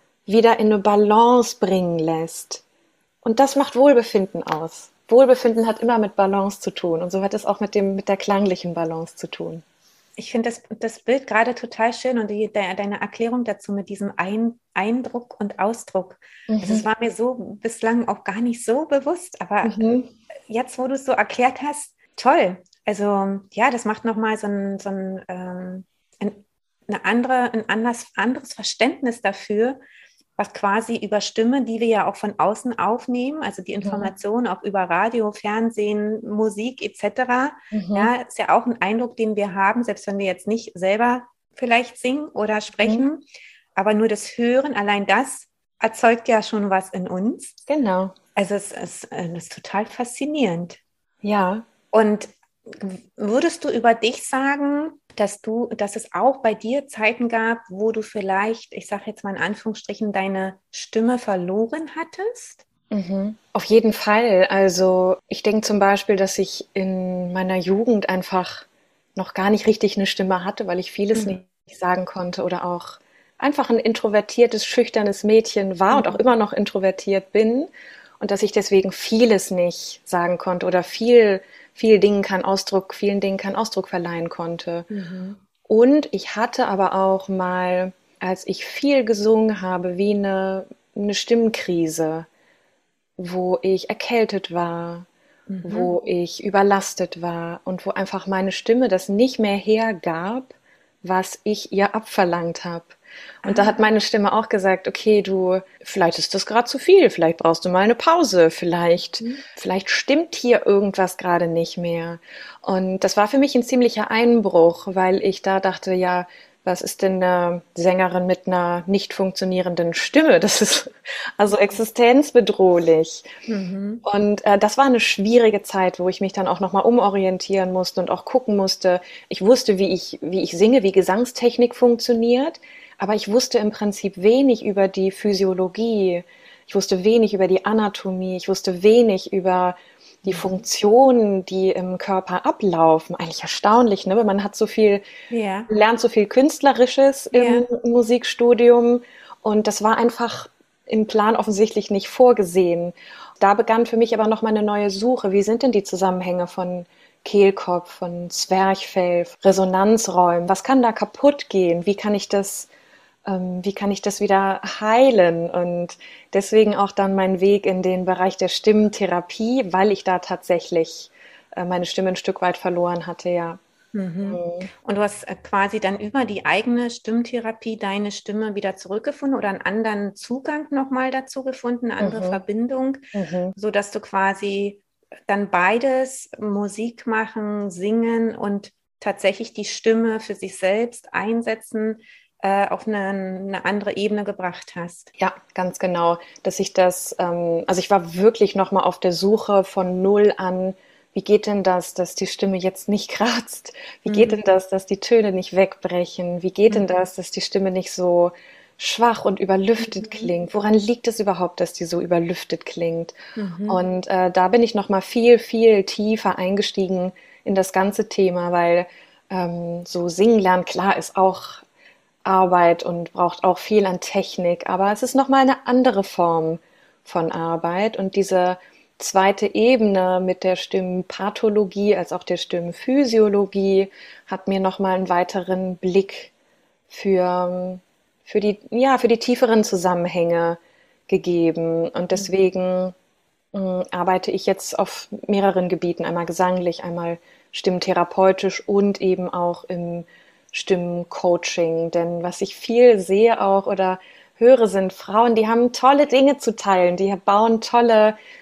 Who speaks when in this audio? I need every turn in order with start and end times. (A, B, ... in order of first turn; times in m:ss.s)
0:00.3-0:02.6 A
0:03.2-0:09.6 A
0:10.2-0:19.8 B
0:16.5-0:16.8 A
0:19.6-0:20.1 A
0:20.5-0:29.8 B
0:30.4-0:43.2 B
0:33.8-0:34.1 A
0:37.7-0:38.1 A
0:43.7-0:47.6 B
0:47.7-0:48.1 A
0:48.4-0:50.8 B
0:51.2-0:51.6 A
0:51.9-1:02.6 B
1:02.9-1:17.7 A
1:15.9-1:16.2 B
1:18.2-1:24.9 A
1:24.9-1:25.4 B
1:25.7-1:32.3 A
1:33.2-1:35.1 A
1:35.5-1:35.9 B
1:35.6-2:03.3 A
1:43.4-1:43.8 B
2:03.4-2:04.0 B
2:04.0-2:25.0 A
2:20.3-2:20.6 B
2:25.3-2:25.7 B
2:25.7-2:42.7 A
2:27.3-2:27.6 B
2:43.2-2:53.6 A
2:53.9-3:03.0 B
2:54.3-2:54.7 A
3:02.0-3:02.4 A
3:03.1-3:03.5 A
3:03.5-3:15.1 B
3:15.2-3:41.6 A
3:24.1-3:24.4 B
3:29.8-3:30.3 B
3:33.4-3:33.8 B
3:42.2-3:56.3 A
3:56.9-4:02.9 A
4:03.5-4:18.2 A